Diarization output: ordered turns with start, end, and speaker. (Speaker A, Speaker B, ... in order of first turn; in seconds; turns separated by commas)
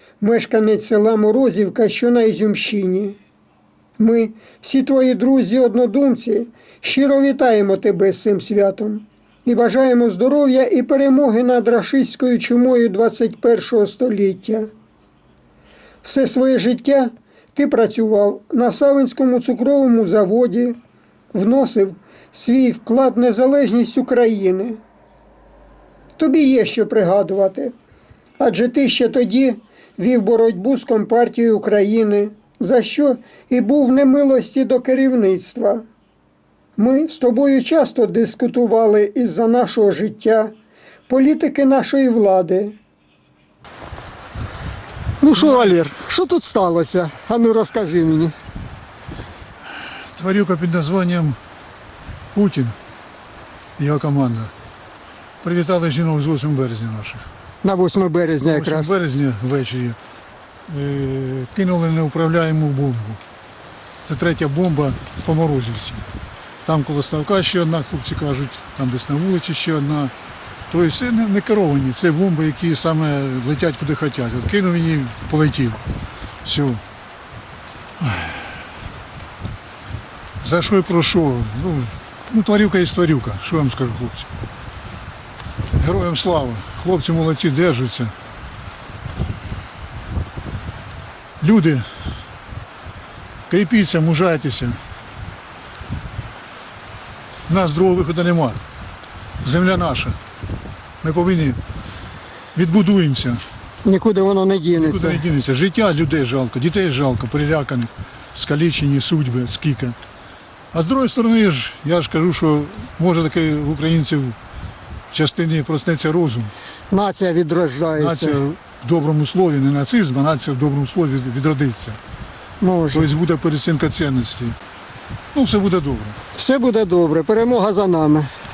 Speaker A: 0.2-3.1, Speaker A: 4.0-14.7, Speaker A: 16.0-20.8, Speaker A: 21.3-24.8, Speaker A: 26.2-27.7, Speaker A: 28.4-35.8, Speaker A: 36.8-40.5, Speaker A: 41.1-42.8, Speaker A: 45.2-48.3, Speaker B: 45.3-45.8, Speaker B: 50.1-51.4, Speaker B: 52.3-52.8, Speaker B: 53.8-54.5, Speaker B: 55.4-57.2, Speaker A: 57.6-58.9, Speaker B: 58.4-60.0, Speaker B: 60.7-63.2, Speaker B: 64.0-66.0, Speaker B: 66.6-70.1, Speaker B: 70.7-75.8, Speaker B: 76.4-76.8, Speaker B: 78.0-78.3, Speaker B: 80.4-84.3, Speaker B: 85.8-88.1, Speaker B: 91.4-91.9, Speaker B: 93.5-94.8, Speaker B: 97.5-98.6, Speaker B: 99.4-100.2, Speaker B: 101.0-101.6, Speaker B: 102.5-103.4, Speaker A: 103.8-105.2, Speaker B: 104.7-110.0, Speaker B: 110.7-114.4, Speaker B: 115.1-116.5, Speaker A: 116.9-118.4, Speaker B: 117.9-122.0, Speaker A: 122.6-123.1, Speaker B: 122.9-124.5, Speaker B: 125.3-126.2, Speaker A: 126.4-128.3